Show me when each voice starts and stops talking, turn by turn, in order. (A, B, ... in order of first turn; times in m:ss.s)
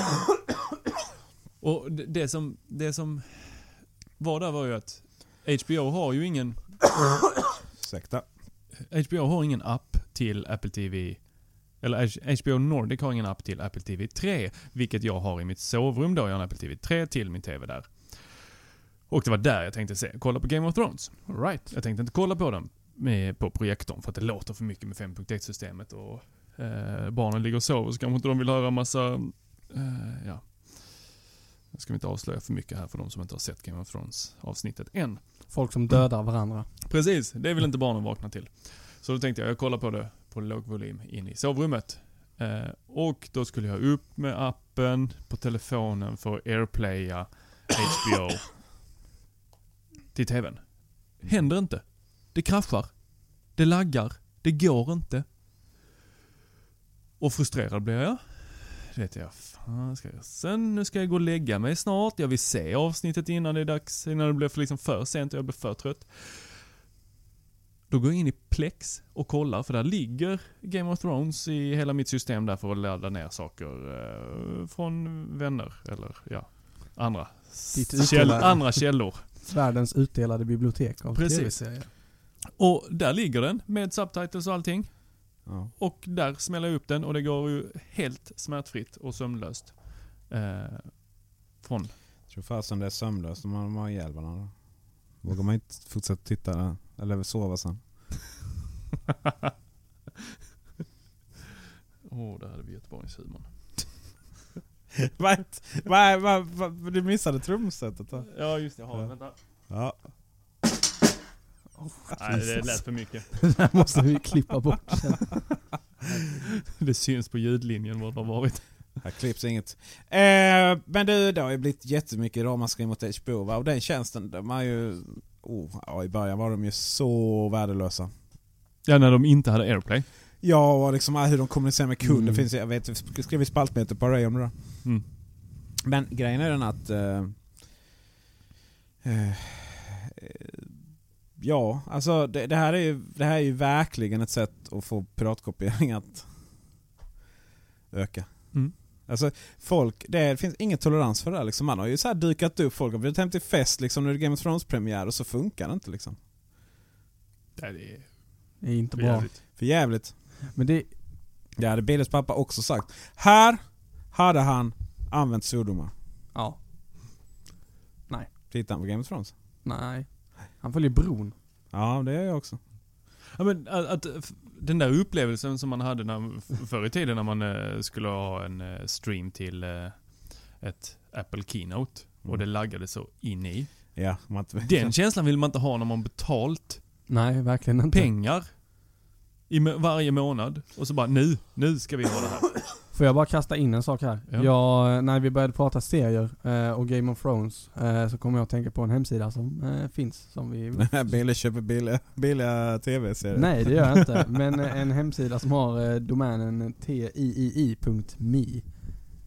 0:01.6-0:06.8 A
0:07.8-0:08.3 B
0:08.8-0:18.5 A
0:19.1-0:31.2 A
0:21.3-0:21.7 C
0:31.7-0:35.6 A
0:35.5-0:36.7 C
0:36.9-0:48.6 A
0:50.1-0:55.3 A
0:57.2-1:06.6 A
1:07.9-1:19.2 A
1:17.7-1:21.9 C
1:21.1-1:31.9 A
1:25.4-1:25.7 B
1:32.3-1:38.2 B
1:42.0-1:44.1 A
1:45.2-1:49.1 B
1:48.2-1:49.4 A
1:49.7-1:50.1 B
1:51.8-1:55.4 C
1:52.2-1:53.5 A
1:56.7-1:58.7 A
1:59.0-2:08.1 B
2:08.8-2:10.0 A
2:10.4-2:15.0 B
2:12.0-2:12.4 C
2:15.8-2:17.8 B
2:19.0-2:20.7 B
2:21.3-2:26.7 B
2:27.9-2:36.2 B
2:37.6-2:39.3 A
2:38.6-2:39.6 C
2:39.6-2:40.2 B
2:40.5-2:40.9 C
2:41.6-2:45.9 B
2:46.3-2:46.6 C
2:48.5-2:49.3 B
2:49.6-2:51.3 C
2:51.7-2:52.6 B
2:53.3-3:06.9 A
3:03.9-3:05.0 B
3:07.1-3:08.1 C
3:07.9-3:08.9 A
3:09.5-3:12.7 A
3:12.9-3:21.1 C
3:20.8-3:23.8 B
3:23.3-3:29.0 C